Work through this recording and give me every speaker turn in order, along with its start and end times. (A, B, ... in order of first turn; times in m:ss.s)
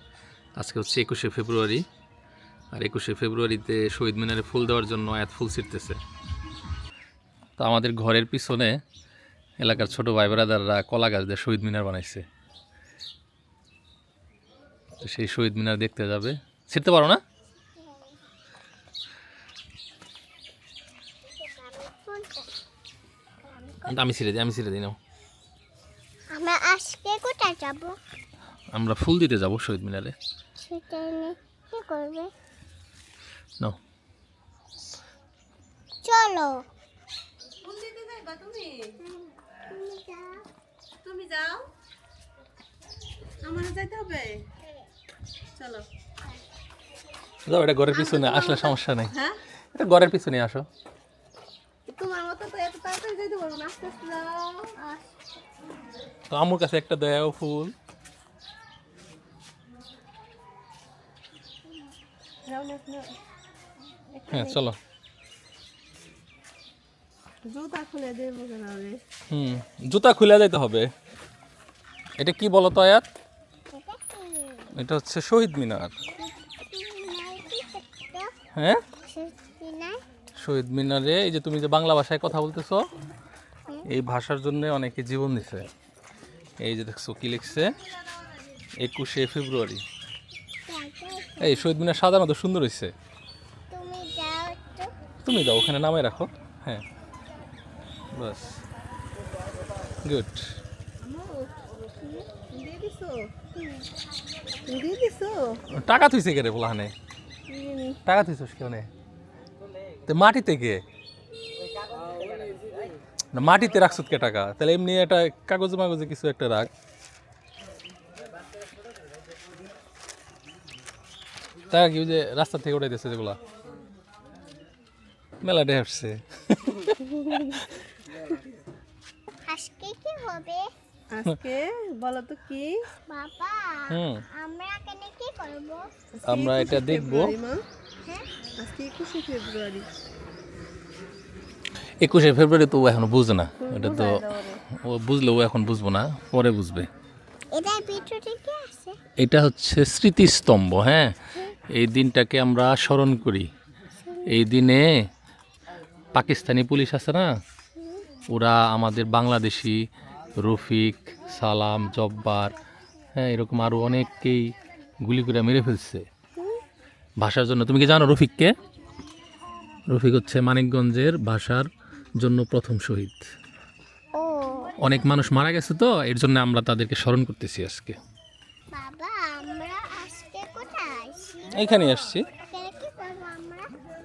0:00.6-0:01.8 A
0:02.7-0:06.0 A
0:07.6-0:08.8 A
0:09.6-0:12.2 A
0:15.0-0:17.2 A
0:17.8-0:18.1 B
0:21.3-0:22.5 B
0:23.4-0:24.0 B
0:23.9-0:25.0 A
0:26.3-0:28.0 B
0:28.7-0:30.1 A
0:30.6-0:32.3 B
0:36.0-0:36.6 B
0:37.6-0:39.0 C
0:39.0-0:40.4 B
0:41.0-0:41.6 C
0:43.4-0:44.4 C
0:45.6-0:45.8 C
0:47.4-0:49.2 A
0:47.9-0:49.4 C
0:49.7-0:50.6 A
0:51.9-0:55.0 C
0:56.3-0:57.7 A
1:02.4-1:03.1 C
1:04.1-1:04.6 C
1:04.3-1:04.8 A
1:07.4-1:09.0 C
1:09.3-1:10.9 A
1:12.2-1:13.0 A
1:13.7-1:14.7 B
1:14.7-1:15.9 A
1:16.2-1:18.3 B
1:18.6-1:18.8 A
1:19.0-1:20.0 B
1:20.4-1:22.8 A
1:23.9-1:25.7 A
1:26.6-1:27.7 A
1:28.8-1:29.8 A
1:30.7-1:31.5 B
1:31.4-1:32.9 A
1:33.7-1:34.9 B
1:35.2-1:36.8 A
1:38.1-1:38.6 A
1:40.0-1:40.4 A
1:41.0-1:41.5 C
1:42.0-1:43.3 C
1:44.7-1:45.6 C
1:45.7-1:46.9 A
1:47.5-1:48.0 C
1:48.0-1:48.9 A
1:50.1-1:50.8 A
1:53.3-1:56.7 A
2:01.7-2:03.4 A
2:05.4-2:07.7 A
2:09.4-2:10.7 B
2:11.1-2:12.8 C
2:13.1-2:15.8 B
2:13.9-2:14.2 A
2:16.1-2:17.6 C
2:16.2-2:17.3 A
2:18.6-2:19.9 C
2:22.0-2:26.9 A
2:23.6-2:24.6 C
2:27.5-2:29.0 B
2:29.2-2:31.1 A
2:31.7-2:33.5 A
2:34.0-2:34.4 B
2:34.3-2:35.0 A
2:36.1-2:37.3 A
2:37.8-2:38.0 B
2:38.3-2:39.8 A
2:40.4-2:42.5 A
2:43.2-2:44.5 A
2:45.0-2:46.0 A
2:47.2-2:48.5 A
2:49.9-2:51.7 A
2:52.2-2:53.2 A
2:54.1-2:54.8 B
2:54.8-2:58.0 A
2:58.7-3:01.7 B
3:01.5-3:02.2 A
3:02.4-3:03.7 B